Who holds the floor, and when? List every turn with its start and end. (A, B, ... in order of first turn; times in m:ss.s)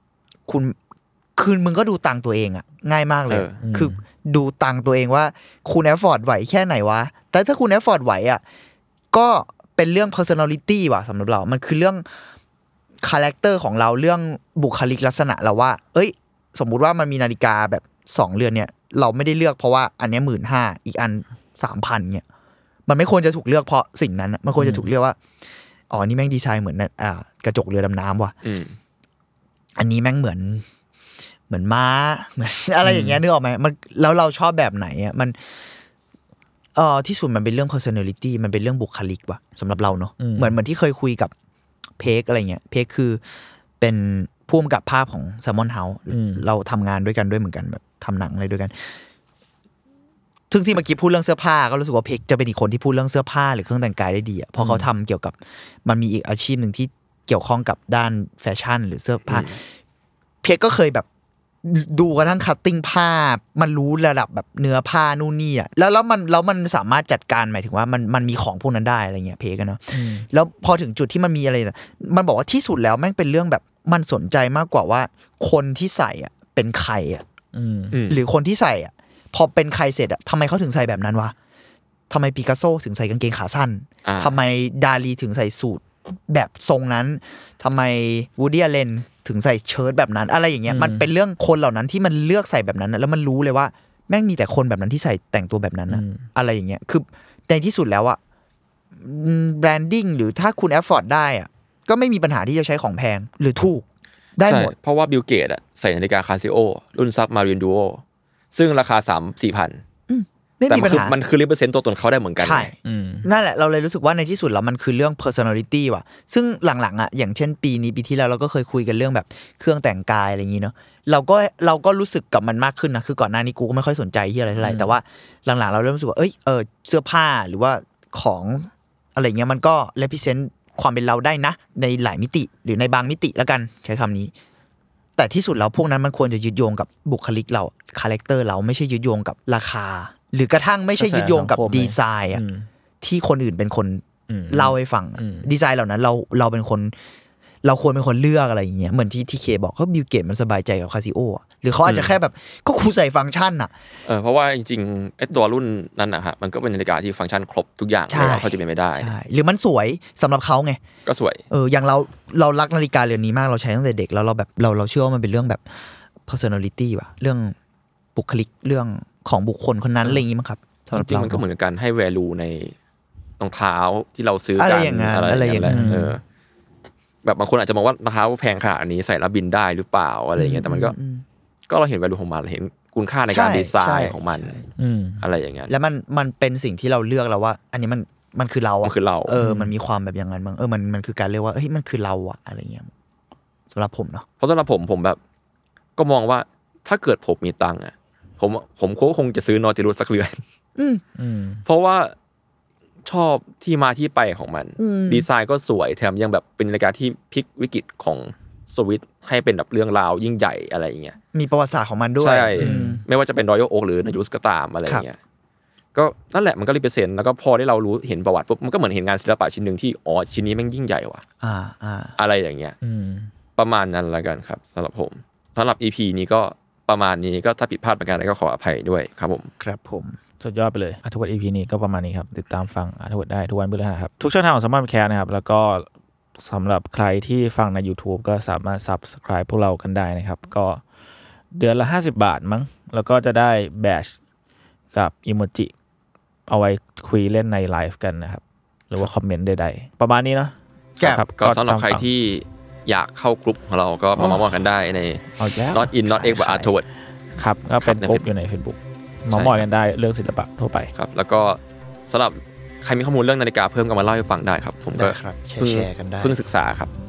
0:00.5-0:00.8 A
0:01.4-0:08.4 A
0:03.3-0:03.6 B
0:03.6-0:04.0 C
0:09.1-0:12.0 A
0:13.0-0:22.2 A
0:22.9-0:25.2 A
0:24.6-0:24.8 C
0:25.9-0:28.4 A
0:28.4-0:28.8 B
0:29.8-0:30.7 A
0:31.5-0:35.6 A
0:32.8-0:33.2 C
0:36.8-0:41.3 A
0:40.2-0:40.6 C
0:42.0-0:43.2 A
0:43.8-0:49.0 A
0:46.1-0:46.4 C
0:50.5-0:59.7 A
0:59.3-0:59.6 B
1:00.4-1:01.1 A
1:01.6-1:17.2 A
1:09.9-1:10.3 C
1:17.5-1:18.0 C
1:17.9-1:18.2 B
1:18.1-1:21.4 A
1:22.1-1:38.2 A
1:24.1-1:24.4 B
1:30.7-1:31.1 C
1:35.9-1:36.3 C
1:39.0-1:43.9 A
1:44.4-1:44.7 A
1:44.5-1:48.0 B
1:48.5-1:49.8 B
1:50.1-1:51.2 A
1:50.7-1:52.7 B
1:52.4-2:14.3 A
1:52.8-1:53.3 C
2:04.6-2:04.9 C
2:15.2-2:22.4 A
2:21.0-2:22.7 C
2:23.0-2:27.0 A
2:24.3-2:25.5 C
2:27.6-2:33.7 A
2:31.8-2:32.2 B
2:34.1-2:39.1 B
2:38.1-2:40.8 A
2:41.1-2:41.4 B
2:41.5-2:45.7 A
2:46.3-2:47.6 A
2:48.2-2:51.4 A
2:50.9-2:52.8 B
2:53.4-2:56.2 B
2:54.6-2:56.0 A
2:55.7-2:56.2 C
2:57.2-3:01.0 B
3:00.4-3:01.2 A
3:01.7-3:04.6 B
3:03.3-3:04.6 A
3:04.8-3:05.2 C
3:05.2-3:05.7 B
3:05.7-3:12.9 A
3:08.8-3:09.4 B
3:09.4-3:09.7 C
3:13.7-3:14.3 A
3:14.4-3:15.2 B
3:16.0-3:20.4 B
3:20.8-3:21.0 A
3:21.2-3:21.6 C
3:21.7-3:22.1 B
3:23.1-3:31.2 B
3:24.8-3:25.3 A
3:31.3-3:33.0 A
3:32.2-3:35.2 B
3:32.6-3:33.0 C
3:36.0-3:41.2 B
3:41.4-3:42.2 A
3:42.2-3:42.8 B
3:42.8-3:43.3 C
3:43.6-3:49.5 B
3:49.6-3:50.2 A
3:50.4-4:00.8 C
4:01.5-4:04.2 C
4:04.9-4:05.7 C
4:06.5-4:12.1 C
4:11.0-4:11.2 A
4:11.4-4:16.9 B
4:15.4-4:15.9 C
4:16.0-4:16.7 A
4:17.4-4:20.9 C
4:17.8-4:18.2 B
4:19.3-4:19.6 B
4:21.0-4:26.9 B
4:25.0-4:26.4 A